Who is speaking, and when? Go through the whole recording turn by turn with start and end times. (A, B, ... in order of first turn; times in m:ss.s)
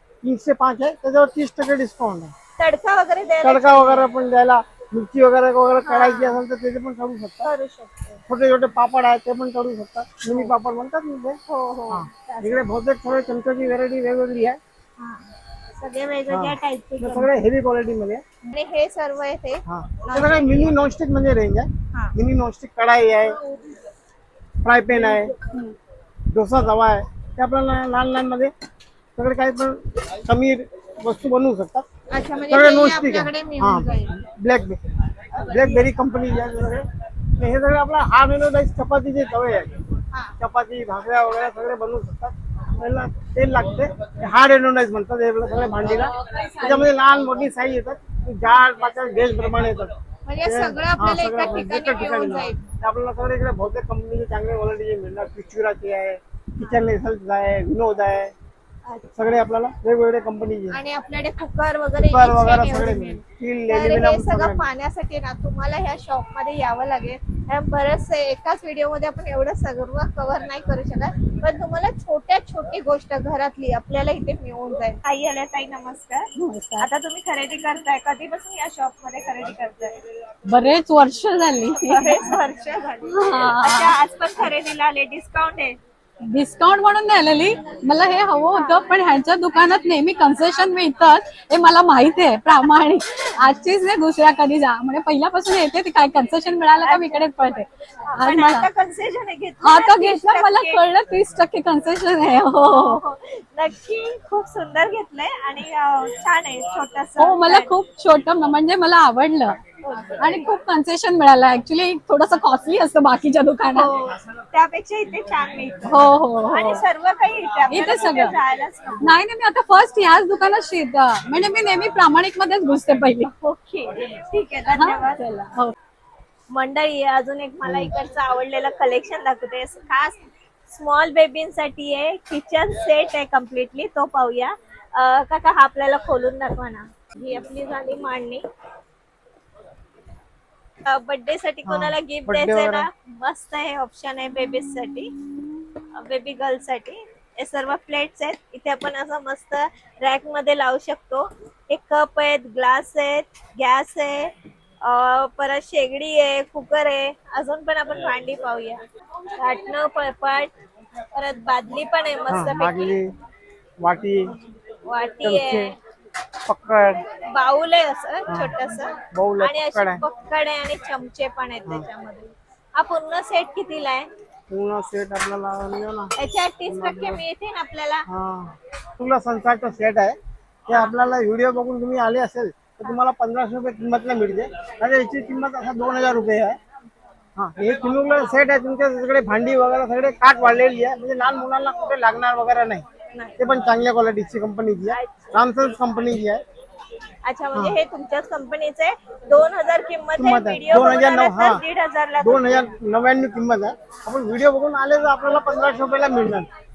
0:00.2-0:02.3 A
0:02.6-0:04.1 B
0:03.4-0:07.5 A
0:05.8-0:06.4 B
0:07.4-0:08.2 B
0:08.3-0:11.4 A
0:11.5-0:12.6 B
0:11.9-0:14.6 A
0:15.0-0:15.3 B
0:15.8-0:17.3 B
0:16.3-0:18.2 A
0:18.4-0:20.8 B
0:19.7-0:23.4 A
0:24.6-0:25.3 A
0:25.1-0:25.6 B
0:26.3-0:28.5 A
0:29.2-0:31.9 A
0:32.1-0:34.2 B
0:32.5-0:39.8 A
0:35.4-0:35.8 B
0:40.4-0:58.3 A
0:46.2-0:46.9 B
0:50.3-0:52.7 B
0:58.9-0:59.2 B
0:59.2-1:00.8 A
1:00.7-1:20.0 B
1:02.0-1:04.7 A
1:16.4-1:16.9 C
1:20.5-1:22.4 C
1:21.9-1:25.8 B
1:23.1-1:24.0 C
1:26.3-1:38.7 C
1:36.8-1:37.2 B
1:38.2-1:40.8 B
1:39.6-1:43.0 C
1:42.6-1:47.7 B
1:47.2-1:49.6 C
1:49.8-1:50.5 B
1:50.2-1:53.9 C
1:53.8-1:59.2 B
1:55.9-1:56.8 C
1:57.7-1:58.4 C
1:59.0-2:03.3 C
2:03.3-2:05.2 B
2:04.8-2:05.8 C
2:06.5-2:18.5 B
2:07.6-2:07.9 A
2:20.8-2:25.1 B
2:21.7-2:22.9 A
2:25.9-2:38.8 B
2:39.4-2:40.5 B
2:41.1-2:43.0 B
2:42.3-2:43.1 A
2:43.8-2:44.4 A
2:44.9-2:45.8 B
2:45.2-2:45.7 A
2:46.5-2:47.0 A
2:47.2-2:54.1 B
2:48.3-2:48.6 A
2:49.1-2:50.0 A
2:54.5-2:56.1 A
2:56.2-2:58.1 B
2:56.7-2:57.2 A
2:58.1-3:00.2 A
3:00.7-3:06.6 A
3:00.7-3:01.0 B
3:07.4-3:12.8 A
3:13.1-3:13.4 B
3:13.4-3:16.4 A
3:14.9-3:15.4 B
3:17.2-3:22.8 B
3:17.5-3:17.8 A
3:20.2-3:21.6 A
3:22.2-3:26.5 A